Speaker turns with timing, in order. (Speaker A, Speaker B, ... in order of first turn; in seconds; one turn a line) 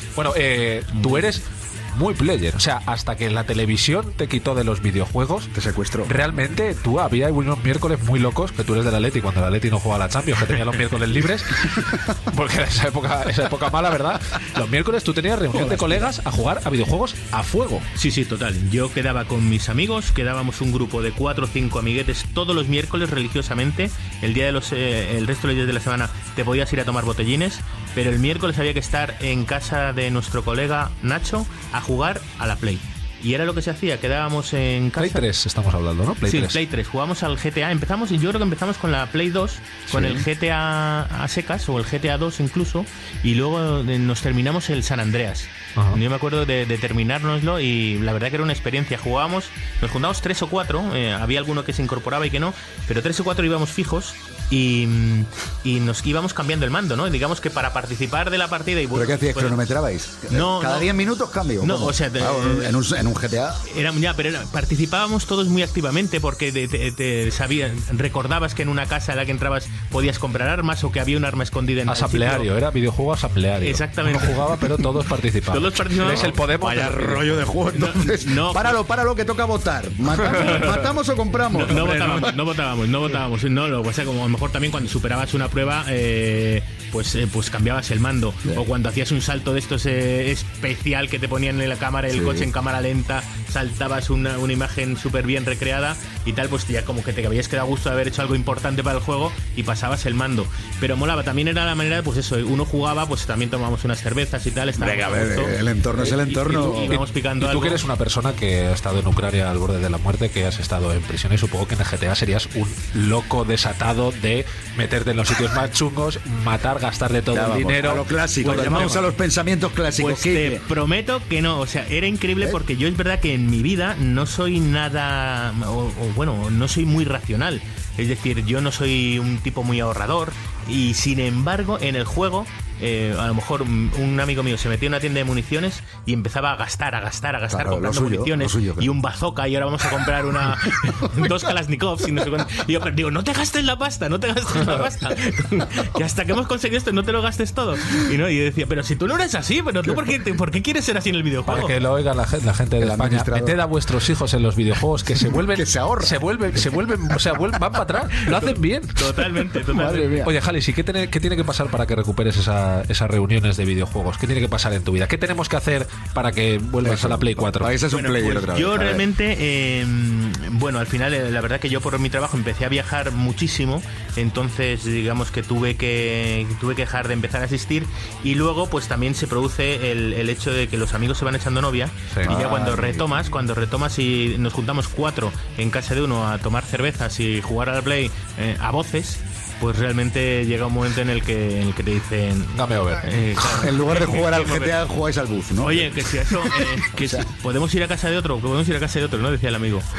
Speaker A: 0.1-5.5
Speaker B: 1.0-1.3
Speaker C: 5.5-6.2
Speaker A: 6.0-17.9
Speaker C: 15.5-16.1
Speaker B: 17.9-35.3
Speaker A: 35.0-36.6
Speaker B: 36.2-59.7
Speaker A: 39.9-40.2
Speaker C: 58.9-63.6
Speaker B: 60.3-61.0
Speaker B: 61.6-62.8
Speaker B: 63.6-72.5
Speaker A: 71.9-77.4
Speaker B: 73.6-74.7
Speaker B: 75.5-78.8
Speaker C: 76.6-82.4
Speaker B: 80.2-81.0
Speaker B: 81.5-107.8
Speaker C: 92.1-92.5
Speaker C: 104.8-107.0
Speaker A: 106.9-119.0
Speaker C: 117.3-120.6
Speaker B: 118.4-119.0
Speaker B: 120.0-151.7
Speaker C: 137.5-138.9
Speaker C: 141.0-141.5
Speaker A: 151.5-159.1
Speaker C: 152.8-153.6
Speaker C: 155.3-156.2
Speaker B: 158.3-160.2
Speaker C: 159.7-160.3
Speaker A: 160.2-167.7
Speaker C: 166.8-169.1
Speaker B: 167.9-194.8
Speaker C: 182.2-183.1
Speaker A: 192.5-193.1
Speaker C: 193.6-197.3
Speaker B: 195.6-199.8